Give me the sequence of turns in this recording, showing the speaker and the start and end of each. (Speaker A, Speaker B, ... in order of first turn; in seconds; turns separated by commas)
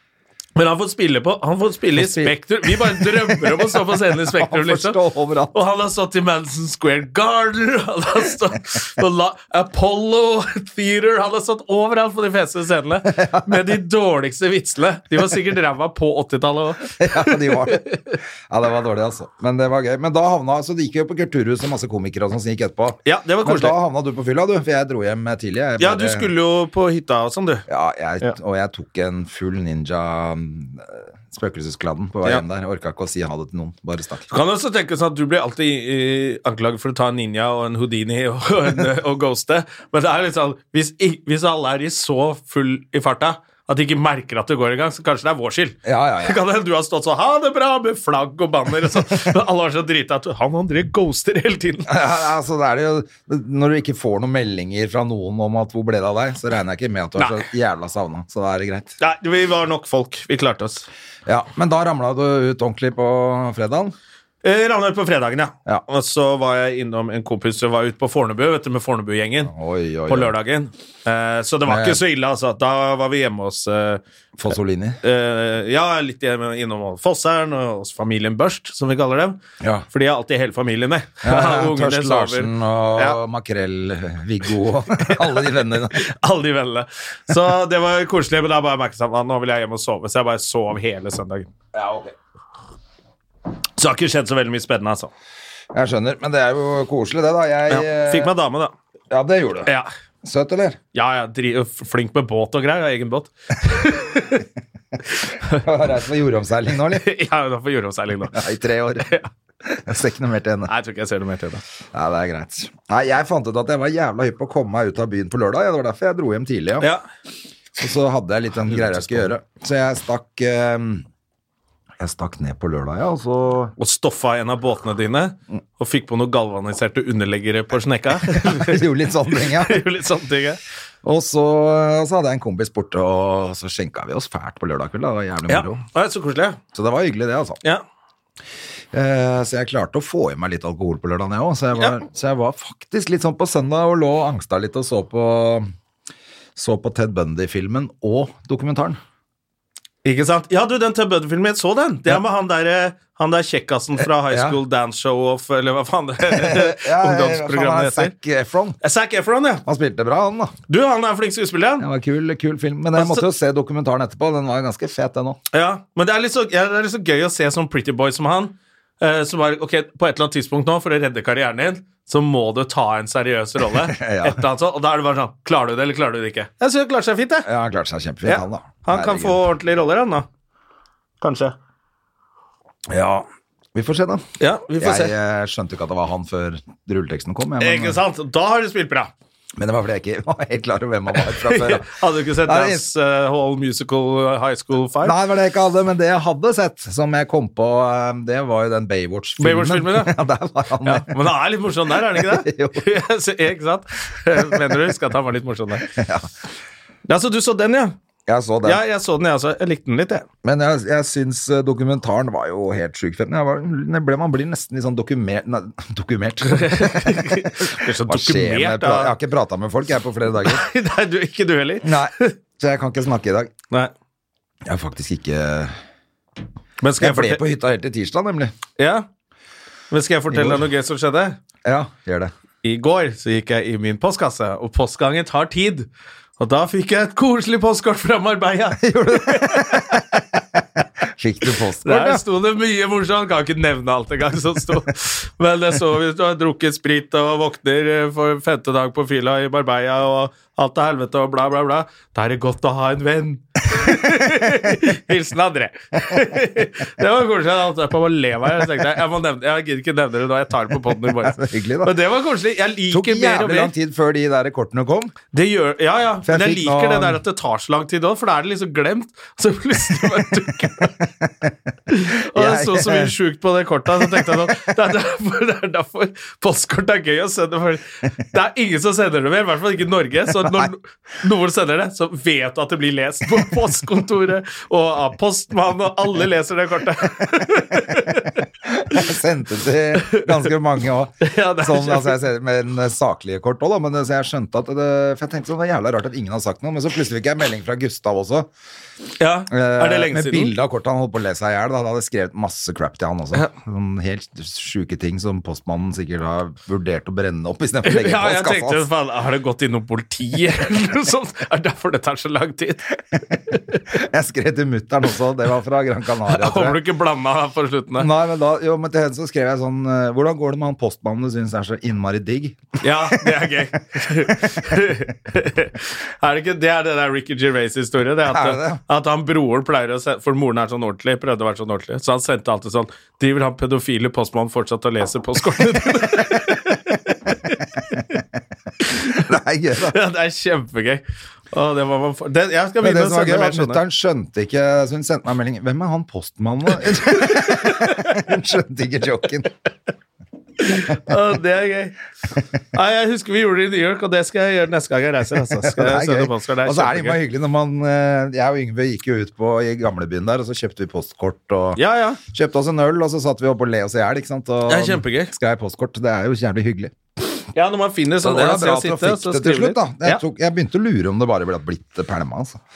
Speaker A: 0.6-5.0, Speaker B: 1.9-5.5, Speaker A: 5.5-18.1, Speaker B: 13.0-13.6, Speaker B: 17.0-26.3, Speaker A: 23.0-23.8, Speaker A: 25.8-27.6, Speaker B: 27.7-34.3, Speaker A: 34.3-52.0, Speaker B: 45.8-46.4, Speaker B: 51.9-58.9, Speaker A: 57.2-57.4, Speaker A: 59.0-60.9, Speaker B: 61.2-63.9, Speaker A: 64.4-69.5, Speaker B: 69.5-70.3, Speaker A: 70.1-74.0, Speaker B: 71.6-72.0, Speaker B: 74.4-75.0, Speaker A: 75.0-79.4, Speaker B: 79.6-79.8, Speaker A: 79.9-83.2, Speaker B: 81.2-86.0, Speaker A: 85.1-91.5, Speaker B: 91.7-92.1, Speaker A: 93.8-95.1, Speaker B: 95.7-98.3, Speaker A: 97.7-98.7, Speaker B: 99.1-99.7, Speaker B: 100.2-100.8, Speaker A: 100.9-104.4, Speaker A: 105.3-105.6, Speaker B: 105.5-107.0, Speaker A: 106.9-108.5, Speaker B: 108.3-109.1, Speaker A: 109.0-109.3, Speaker B: 109.7-110.7, Speaker A: 110.7-111.6, Speaker B: 111.9-116.9, Speaker B: 117.8-121.0, Speaker A: 118.7-119.3, Speaker B: 122.0-123.7, Speaker A: 123.8-130.6, Speaker B: 128.3-129.8, Speaker B: 131.0-135.8, Speaker A: 135.5-136.6, Speaker B: 136.7-137.6, Speaker B: 138.9-145.7, Speaker A: 141.7-142.0, Speaker B: 146.6-149.0, Speaker A: 150.0-158.1, Speaker B: 154.3-154.6, Speaker B: 156.3-158.8, Speaker A: 158.8-159.6, Speaker B: 159.6-160.5, Speaker A: 160.7-161.8, Speaker B: 161.8-165.4, Speaker A: 162.9-163.2, Speaker A: 165.5-177.5, Speaker B: 173.7-174.4, Speaker B: 177.4-179.4, Speaker A: 178.2-180.2, Speaker A: 181.2-181.5, Speaker B: 182.9-188.0, Speaker A: 184.4-185.1, Speaker A: 187.6-189.1, Speaker B: 189.6-191.9, Speaker A: 191.2-195.2, Speaker B: 192.4-192.9, Speaker B: 195.0-201.3, Speaker A: 199.4-200.1, Speaker A: 200.8-205.9, Speaker B: 202.0-202.9, Speaker B: 205.9-206.3, Speaker A: 207.1-208.0, Speaker B: 208.2-208.8, Speaker A: 208.6-210.2, Speaker B: 210.4-220.6, Speaker A: 216.4-219.1, Speaker A: 220.4-222.3, Speaker B: 221.8-223.5, Speaker B: 224.6-225.8, Speaker A: 226.8-227.4, Speaker B: 227.0-228.5, Speaker A: 228.8-229.1, Speaker A: 229.9-231.4, Speaker B: 230.3-230.7, Speaker B: 231.6-232.3, Speaker A: 232.6-240.0, Speaker B: 238.8-242.2, Speaker A: 241.8-263.7, Speaker B: 260.9-261.9, Speaker B: 262.9-265.1, Speaker A: 265.3-270.9, Speaker B: 266.2-267.2, Speaker B: 271.2-271.5, Speaker A: 271.9-289.0, Speaker B: 272.3-273.1, Speaker B: 273.9-274.7, Speaker B: 280.4-280.7, Speaker B: 287.7-298.5, Speaker A: 290.0-290.4, Speaker A: 291.2-292.2, Speaker A: 299.2-300.5, Speaker B: 299.5-308.9, Speaker A: 307.8-313.8, Speaker B: 313.9-316.8, Speaker A: 316.3-318.1, Speaker B: 318.0-324.7, Speaker A: 322.8-338.2, Speaker B: 328.3-328.8, Speaker A: 338.8-339.3, Speaker B: 339.1-340.0, Speaker A: 339.8-343.8, Speaker B: 342.8-349.5, Speaker A: 347.0-348.3, Speaker A: 350.6-352.0, Speaker A: 352.7-357.2, Speaker B: 355.5-366.9, Speaker A: 361.8-362.2, Speaker A: 364.7-365.3, Speaker A: 367.5-370.2, Speaker B: 368.2-372.6